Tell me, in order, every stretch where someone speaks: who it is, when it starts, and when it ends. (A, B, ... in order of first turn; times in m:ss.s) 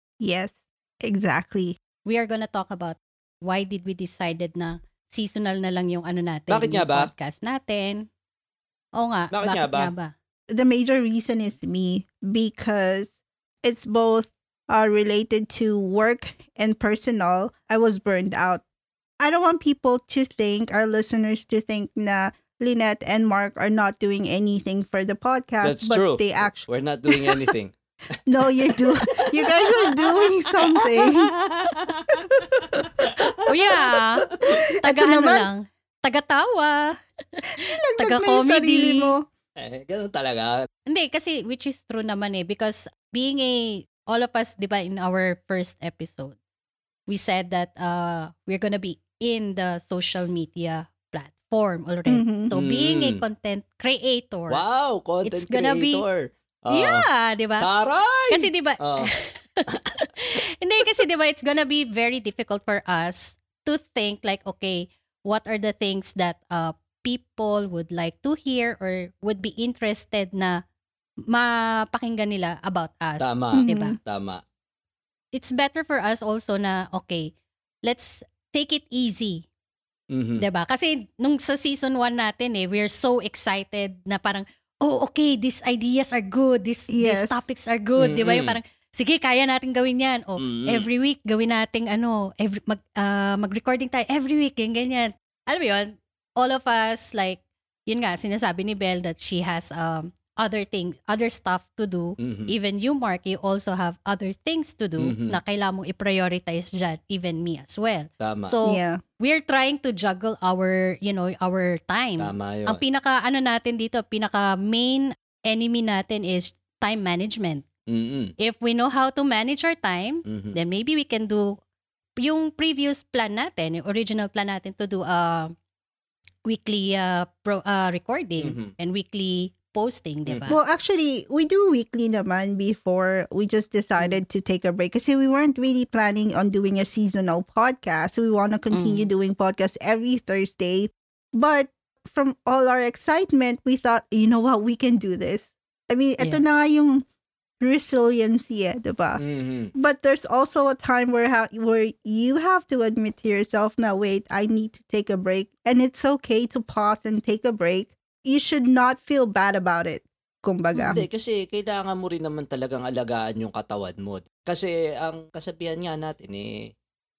0:00.2-0:01.8 A
0:02.0-0:08.1 B
0:06.5-0:07.1 C
0:09.0-0:10.1 B
0:09.3-0:09.9 C
0:10.5-0:18.6 A
0:19.2-0:27.4 A
0:25.6-0:27.8 C
0:28.3-0:31.3 A
0:29.2-0:33.4 C
0:32.6-0:32.8 A
0:33.5-0:34.3 B
0:33.7-0:34.0 A
0:34.3-0:34.6 C
0:34.8-0:39.2 B
0:34.8-0:35.5 A
0:37.5-0:39.2 A
0:39.6-0:40.6 C
0:40.9-0:46.4 B
0:47.1-0:54.6 B
0:52.1-0:52.5 A
0:52.5-0:53.2 C
0:54.5-0:57.1 C
0:55.2-0:56.0 B
0:56.7-0:57.7 B
0:57.6-0:59.1 C
0:58.3-1:10.6 B
1:11.3-1:14.0 B
1:13.2-1:14.4 C
1:13.6-1:14.0 A
1:15.3-1:17.3 B
1:17.8-1:19.5 B
1:20.1-1:20.4 C
1:20.4-1:57.6 B
1:26.9-1:27.4 A
1:28.0-1:28.6 C
1:30.4-1:30.9 C
1:42.2-1:42.5 C
1:45.0-1:45.4 C
1:48.2-1:48.6 C
1:48.6-1:49.0 A
1:52.2-1:52.8 C
1:57.9-1:58.3 C
1:58.4-2:01.4 B
2:00.3-2:00.6 C
2:02.2-2:05.5 B
2:06.5-2:10.6 B
2:08.4-2:08.7 C
2:10.3-2:10.6 C
2:10.5-2:27.0 A
2:18.7-2:19.1 B
2:27.6-2:29.2 A
2:29.2-2:29.7 C
2:29.8-2:41.0 A
2:40.8-2:46.5 C